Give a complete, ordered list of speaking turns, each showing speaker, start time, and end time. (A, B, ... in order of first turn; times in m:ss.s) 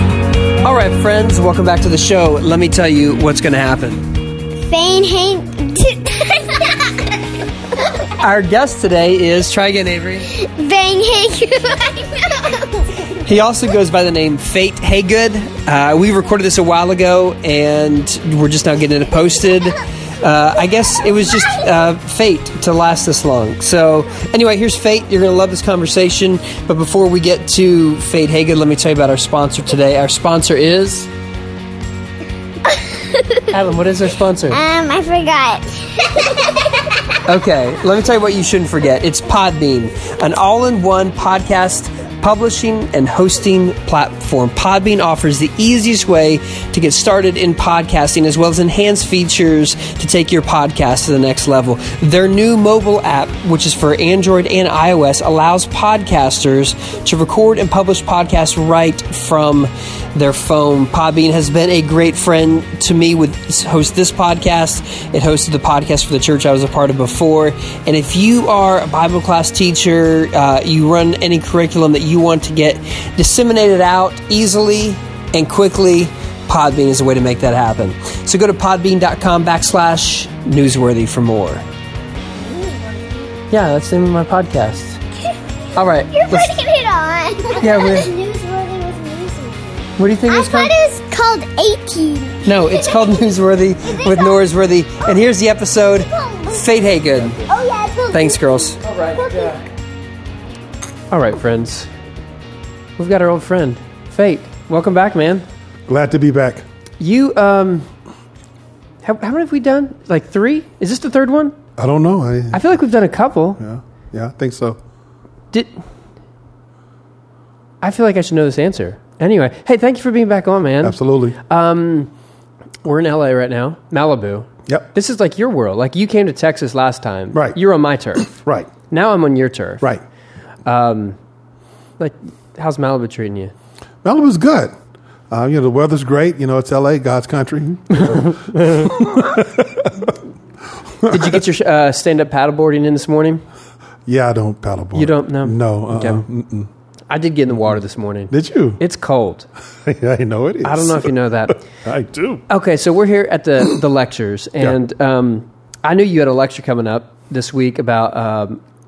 0:00.6-0:04.0 A
0:04.6-0:07.2 B
0:08.2-0:10.3 A
0:10.4-0:12.8 B
0:13.2-0:31.1 A
0:32.7-0:33.4 B
0:33.5-0:34.6 A
0:34.5-0:37.0 B
0:37.3-1:21.6 A
1:22.5-1:23.2 B
1:23.5-1:25.0 A
1:25.8-1:26.5 A
1:26.1-1:33.2 B
1:27.6-1:28.1 A
1:30.0-1:30.8 A
1:32.4-1:37.5 A
1:33.8-1:34.4 B
1:36.1-1:36.6 B
1:37.5-1:39.5 B
1:38.1-1:39.6 A
1:41.1-1:41.9 A
1:43.0-1:45.5 A
1:45.9-1:46.6 C
1:47.0-1:47.9 A
1:49.0-1:51.6 A
1:51.8-1:52.6 C
1:52.5-1:53.6 A
1:53.6-1:54.8 C
1:57.8-2:02.1 A
2:00.8-2:01.4 C
2:02.8-2:08.3 A
2:07.3-2:07.6 C
2:08.2-2:08.7 C
2:08.9-2:09.9 A
2:10.7-2:11.2 A
2:12.0-2:13.5 A
2:14.0-2:14.7 C
2:15.3-2:20.2 C
2:18.0-2:18.9 A
2:21.0-2:21.3 C
2:21.1-2:23.4 A
2:24.1-2:26.7 C
2:24.9-2:26.2 A
2:27.1-2:29.5 A
2:28.3-2:28.8 C
2:29.8-2:32.4 C
2:30.6-2:31.6 A
2:32.5-2:38.6 A